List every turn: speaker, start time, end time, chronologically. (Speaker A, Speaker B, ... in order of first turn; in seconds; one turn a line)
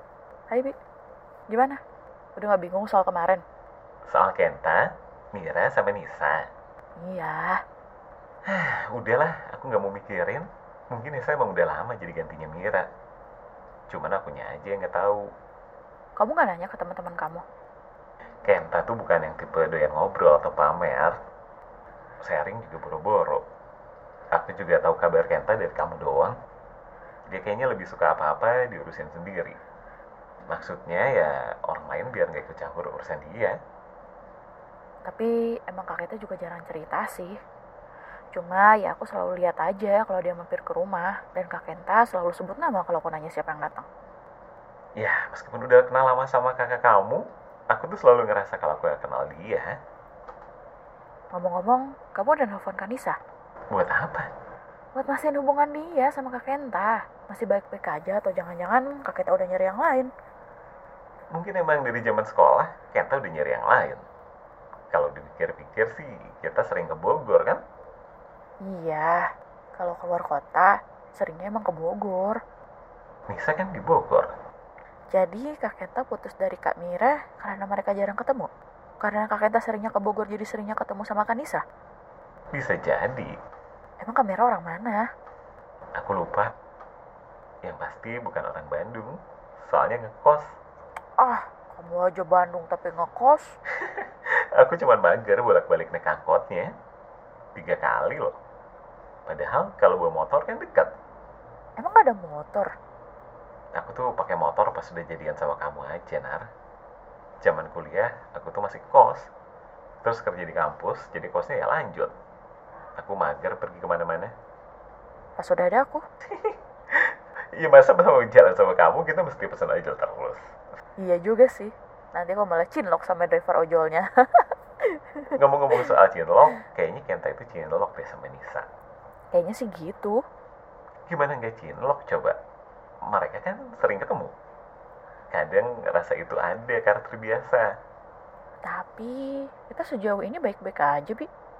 Speaker A: 0.5-0.7
Speaker A: 1.5-1.8
Speaker A: 2.4-3.4
Speaker B: 4.1-6.5
Speaker A: 7.0-7.6
Speaker B: 8.4-12.9
Speaker B: 13.9-15.3
Speaker A: 16.2-17.4
Speaker B: 18.4-21.2
Speaker B: 22.2-23.4
Speaker B: 24.3-26.4
Speaker B: 27.3-29.6
Speaker B: 30.5-33.6
Speaker A: 35.1-37.3
Speaker A: 38.3-43.9
Speaker B: 45.0-49.7
Speaker A: 51.3-53.1
Speaker B: 53.7-54.3
Speaker A: 55.0-60.1
Speaker B: 61.3-64.0
Speaker B: 64.9-67.6
Speaker A: 68.6-72.4
Speaker B: 73.3-74.3
Speaker A: 75.1-78.5
Speaker A: 79.0-81.6
Speaker B: 82.5-83.3
Speaker A: 84.0-85.0
Speaker B: 85.9-86.5
Speaker B: 87.6-90.5
Speaker A: 91.2-93.5
Speaker B: 93.8-96.7
Speaker B: 97.5-98.4
Speaker B: 99.3-100.9
Speaker A: 101.8-102.7
Speaker B: 103.7-106.5
Speaker B: 107.4-109.3
Speaker B: 110.0-112.1
Speaker B: 113.0-114.3
Speaker A: 115.4-116.0
Speaker B: 116.3-120.4
Speaker A: 121.0-125.3
Speaker B: 125.3-128.7
Speaker A: 129.3-130.2
Speaker B: 131.1-132.4
Speaker B: 133.1-134.3
Speaker B: 135.3-137.7
Speaker A: 138.7-141.3